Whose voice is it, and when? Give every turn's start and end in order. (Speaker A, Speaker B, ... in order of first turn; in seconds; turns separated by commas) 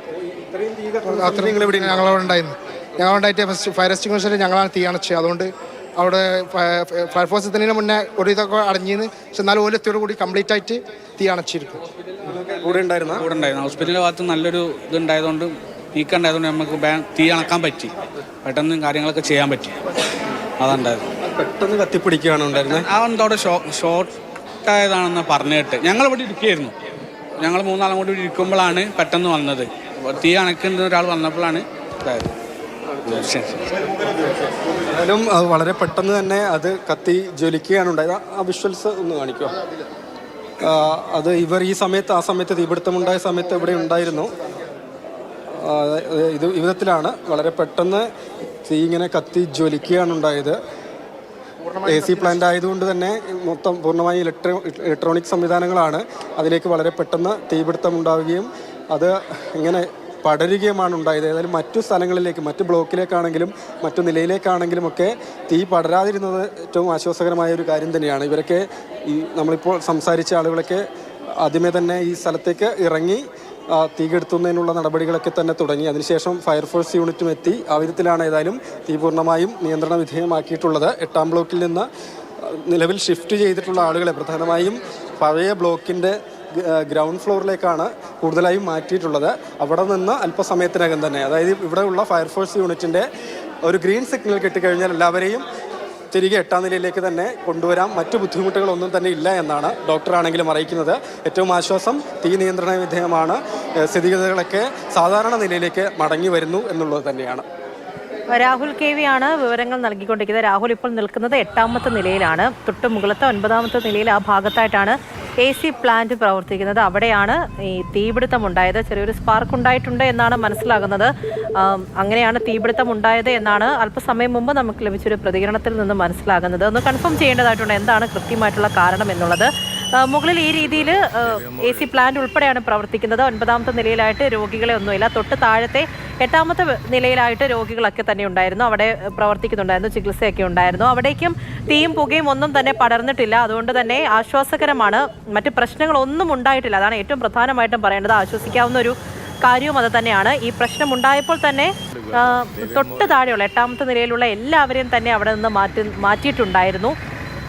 Speaker A: 0.1-2.1, Speaker B: 1.1-11.8, Speaker A: 12.2-13.2, Speaker C: 13.2-17.9, Speaker C: 18.4-19.8, Speaker C: 20.6-21.0, Speaker A: 21.2-22.9, Speaker C: 22.7-26.7, Speaker C: 27.4-32.3, Speaker A: 32.9-33.3, Speaker C: 33.1-33.5, Speaker A: 34.9-39.5, Speaker A: 40.6-44.3, Speaker A: 45.5-48.1, Speaker A: 48.6-50.6, Speaker B: 51.6-52.4, Speaker A: 51.9-70.8, Speaker A: 71.4-81.9, Speaker A: 82.4-93.1, Speaker A: 93.6-95.5, Speaker A: 96.1-107.4, Speaker D: 108.3-156.9